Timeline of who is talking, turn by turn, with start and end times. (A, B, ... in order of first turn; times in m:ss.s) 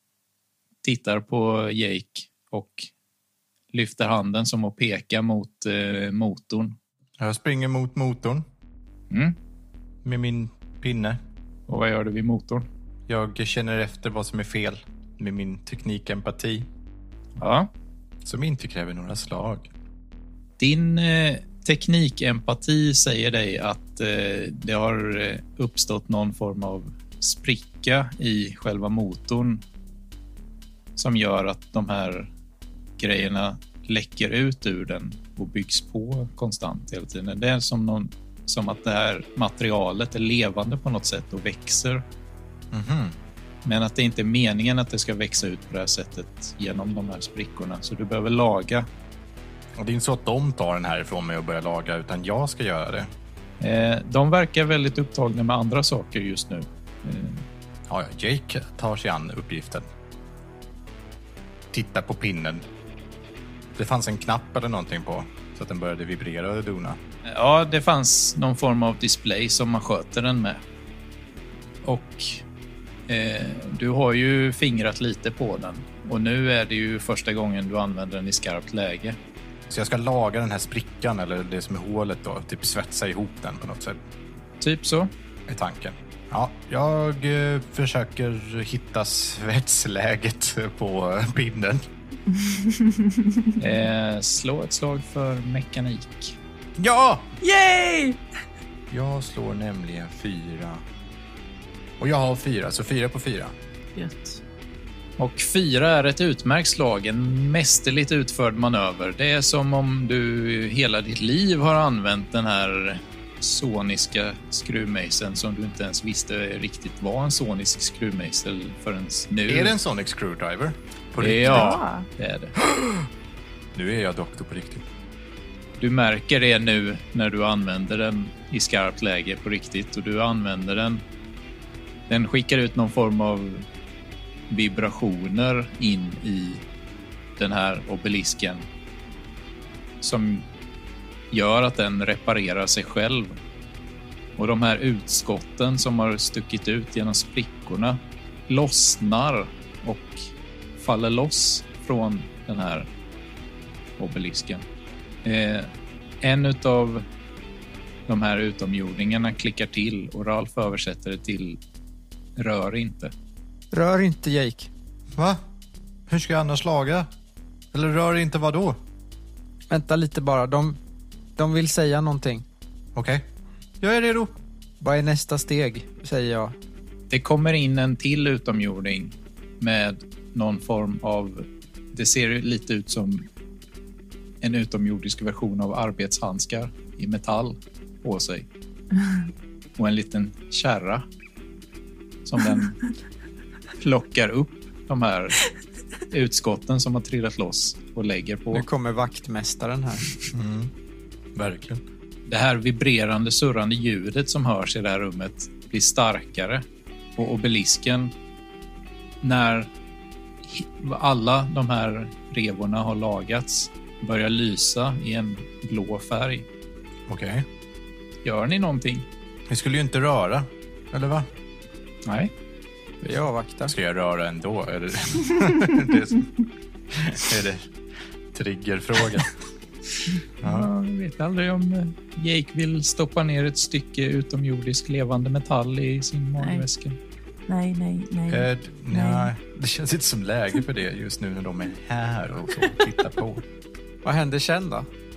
0:00.8-0:02.9 A
0:03.7-0:06.8 A
0:07.2-0:08.4 B
0:09.1-0:09.4 A
0:10.0-0:11.2 B
0:11.7-0:12.7 A
0:13.1-0:16.7 B
0:17.4-0:17.7 A
0:18.2-0:19.7 B
0:20.6-0:29.6 A
0:31.0-0:32.3 A
0:33.0-0:42.0 A
0:42.7-0:43.2 B
0:43.6-0:48.9 A
0:49.8-0:53.1 B
0:53.6-0:57.4 A
0:57.9-0:59.8 B
1:01.7-1:02.6 B
1:03.7-1:07.0 B
1:07.2-1:10.6 A
1:11.8-1:12.4 A
1:13.1-1:19.2 A
1:19.7-1:24.0 B
1:24.6-1:25.1 A
1:25.5-1:31.8 B
1:32.3-1:33.5 C
1:33.6-1:36.4 A
1:36.8-1:37.3 B
1:37.4-1:38.2 C
1:38.9-1:40.8 B
1:42.0-1:43.5 B
1:44.0-1:44.4 C
1:45.2-1:59.7 A
1:59.5-2:01.8 B
2:01.2-2:02.5 A
2:01.4-2:02.1 C
2:02.6-2:03.1 B
2:03.7-2:04.8 B
2:05.8-2:11.0 A
2:12.1-2:13.6 A
2:14.5-2:16.6 A
2:17.4-2:18.7 A
2:20.0-2:20.4 A
2:21.3-2:23.4 A
2:24.4-2:32.9 A
2:34.0-2:34.6 A
2:35.2-2:35.7 A
2:36.2-2:37.0 A
2:38.1-2:41.6 A
2:42.4-2:43.1 A
2:43.7-2:44.7 D
2:45.2-2:45.4 B
2:46.1-2:47.1 B
2:47.7-2:48.8 B
2:49.7-2:50.8 D
2:51.4-2:52.4 D
2:52.9-2:53.2 B
2:53.8-2:54.3 B
2:54.8-2:56.5 D
2:57.1-3:03.3 A
3:04.4-3:08.5 A
3:09.8-3:11.0 A
3:12.2-3:12.8 A
3:13.8-3:15.4 A
3:16.1-3:18.6 A
3:18.5-3:20.2 D
3:20.3-3:20.7 B
3:21.3-3:21.8 B
3:22.2-3:26.6 A
3:27.2-3:28.1 A
3:29.2-3:29.7 A
3:30.4-3:36.4 A
3:37.1-3:37.4 B
3:38.2-3:39.1 A
3:39.5-3:41.3 B
3:42.0-3:42.3 A
3:43.0-3:43.7 D
3:43.7-3:46.3 B
3:46.9-3:47.7 B
3:48.3-3:49.3 B
3:50.4-3:50.7 B
3:50.4-3:57.0 A
3:57.5-3:59.3 C
3:58.3-4:03.4 B
4:04.0-4:04.9 D